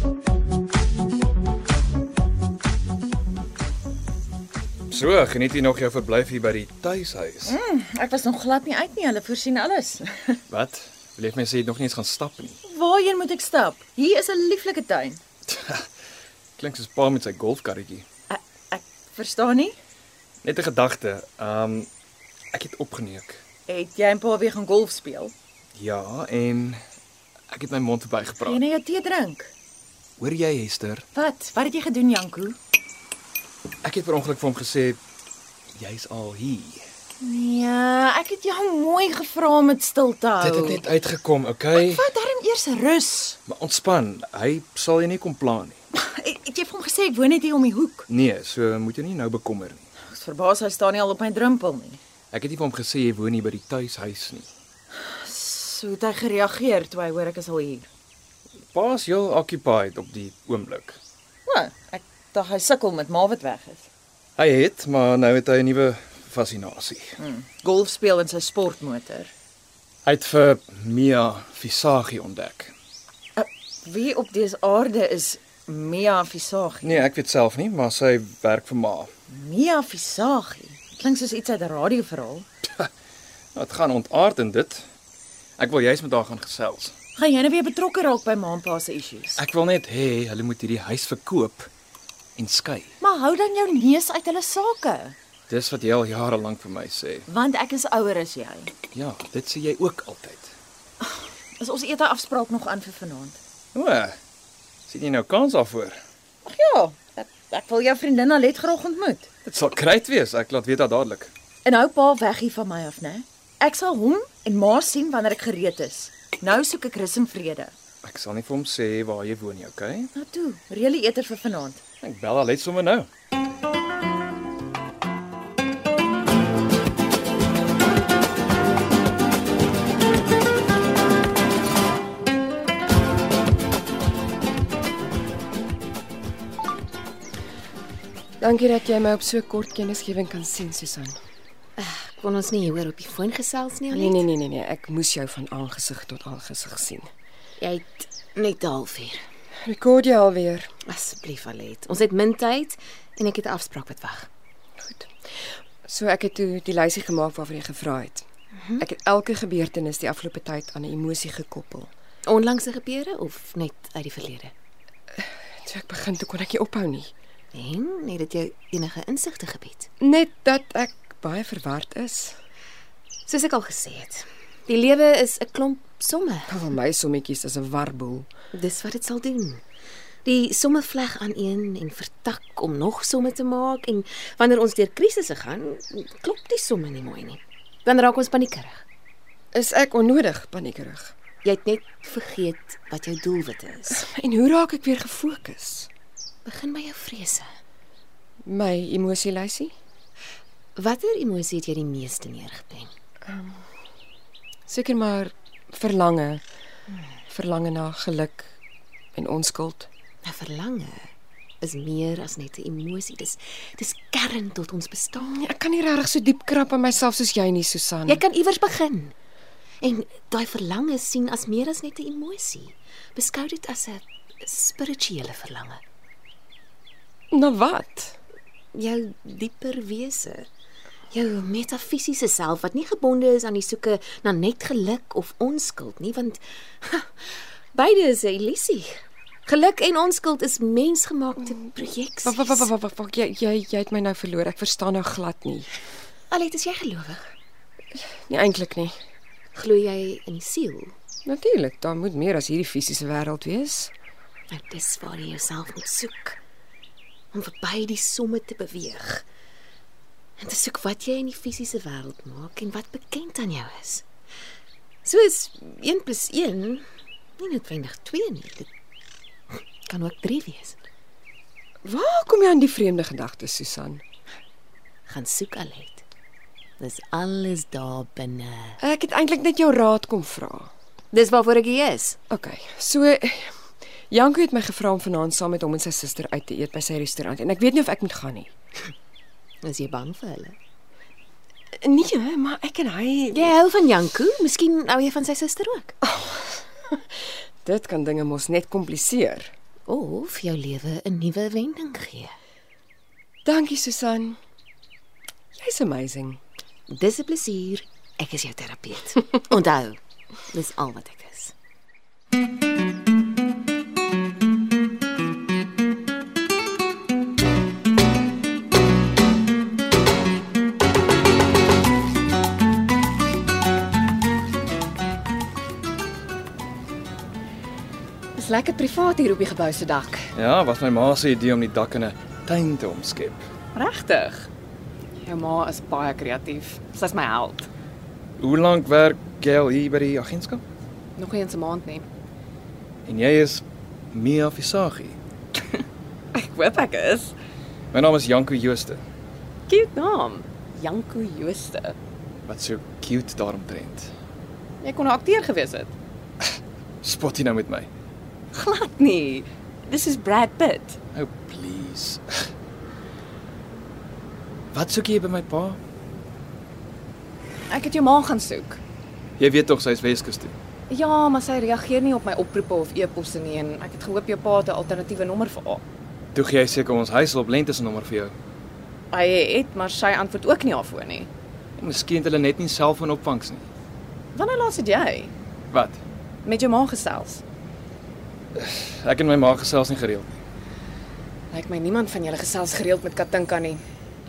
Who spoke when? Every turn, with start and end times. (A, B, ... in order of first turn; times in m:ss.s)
0:04.9-0:07.6 A
0:07.4-0:10.4 B
0:10.5-0:12.6 A
0:12.6-0:15.2 B
0:15.5-0:15.9 A
0:16.6-0:18.1 A
0:18.3-0:19.8 B
0:20.4-0:21.9 A
0:22.5-0:23.4 A
0:23.7-0:25.3 B
0:25.8-0:26.8 A
0:27.5-0:28.7 A
0:28.4-0:29.5 B
0:30.2-0:31.1 A
0:31.2-0:32.6 B
0:33.8-0:35.0 A
0:35.8-0:36.8 A
0:37.2-0:40.9 B
0:40.4-0:42.1 A
0:41.7-0:43.4 B
0:43.5-0:45.8 A
0:45.9-0:48.0 B
0:48.1-0:49.8 A
0:50.1-0:52.0 B
0:52.3-0:54.5 A
0:55.0-0:57.9 B
0:58.7-1:01.0 A
1:01.5-1:03.9 B
1:04.4-1:07.1 A
1:07.2-1:09.3 B
1:10.0-1:12.7 A
1:13.4-1:17.1 B
1:16.8-1:19.1 A
1:19.3-1:22.5 B
1:23.5-1:24.9 A
1:25.6-1:26.9 A
1:27.2-1:29.4 B
1:29.4-1:31.7 A
1:32.4-1:32.9 A
1:33.0-1:35.2 B
1:35.5-1:37.3 A
1:37.3-1:38.7 B
1:38.9-1:40.5 A
1:41.0-1:43.4 B
1:43.7-1:44.2 A
1:44.9-1:46.0 A
1:46.4-1:49.3 B
1:49.5-1:51.3 A
1:51.6-1:57.7 B
1:58.0-2:00.1 A
2:00.2-2:01.8 B
2:02.0-2:03.1 A
2:18.4-2:21.2 C
2:21.8-2:24.3 D
2:23.9-2:27.1 C
2:27.6-2:29.2 D
2:29.6-2:30.7 C
2:30.8-2:34.3 D
2:34.8-2:35.1 C
2:35.8-2:38.3 C
2:38.6-2:38.8 D
2:38.8-2:41.9 C
2:42.2-2:44.5 D
2:45.2-2:47.1 C
2:47.5-2:49.9 D
2:50.0-2:52.4 C
2:53.3-2:56.6 D
2:56.5-2:58.3 C
2:58.5-2:59.6 D
3:00.2-3:08.8 D
3:09.5-3:11.2 C
3:11.4-3:14.0 D
3:13.9-3:15.9 C
3:16.4-3:17.5 D
3:18.4-3:19.7 C
3:20.8-3:22.9 D
3:23.3-3:23.6 C
3:24.7-3:26.4 C
3:27.3-3:28.5 C
3:29.2-3:29.9 C
3:30.2-3:35.4 D
3:35.3-3:38.2 C
3:38.1-3:39.1 D
3:39.8-3:45.8 D
3:47.3-3:48.2 C
3:48.7-3:50.5 D
3:51.1-4:02.7 D
4:02.2-4:05.7 C
4:06.3-4:07.3 D
4:08.3-4:09.0 C
4:09.5-4:11.0 D
4:11.3-4:13.9 C
4:14.5-4:16.4 D
4:17.3-4:19.2 D
4:20.4-4:24.1 D
4:25.0-4:26.8 D
4:27.4-4:28.7 D
4:29.5-4:30.8 D
4:31.8-4:34.0 C
4:35.1-4:36.0 D
4:36.8-4:38.8 D
4:38.8-4:40.7 C
4:41.1-4:42.2 D
4:42.3-4:48.5 C
4:49.6-4:50.6 D
4:51.8-4:53.5 C
4:53.3-4:55.9 D
4:56.0-4:57.0 C
4:57.6-4:59.5 C
4:59.9-5:02.3 D
5:03.4-5:04.4 C
5:05.6-5:06.4 C
5:06.9-5:11.5 D
5:28.4-5:30.3 E
5:30.4-5:33.5 A
5:33.7-5:34.5 E
5:35.2-5:37.7 E
5:38.4-5:40.6 A
5:41.2-5:42.1 E
5:43.0-5:45.2 A
5:46.3-5:47.3 E
5:47.9-5:49.0 A
5:49.7-5:52.0 E
5:52.4-5:54.1 A
5:54.8-5:55.9 E
5:57.0-5:57.9 A
5:58.5-6:01.0 E
6:01.1-6:02.2 A
6:04.7-6:05.8 A
6:07.7-6:08.8 E
6:09.4-6:10.5 A
6:10.9-6:15.8 E
6:16.4-6:18.3 A
6:19.1-6:21.3 E
6:21.8-6:23.6 A
6:24.3-6:25.3 E
6:25.7-6:26.0 A
6:26.4-6:27.4 E
6:28.6-6:30.3 A
6:31.5-6:33.8 E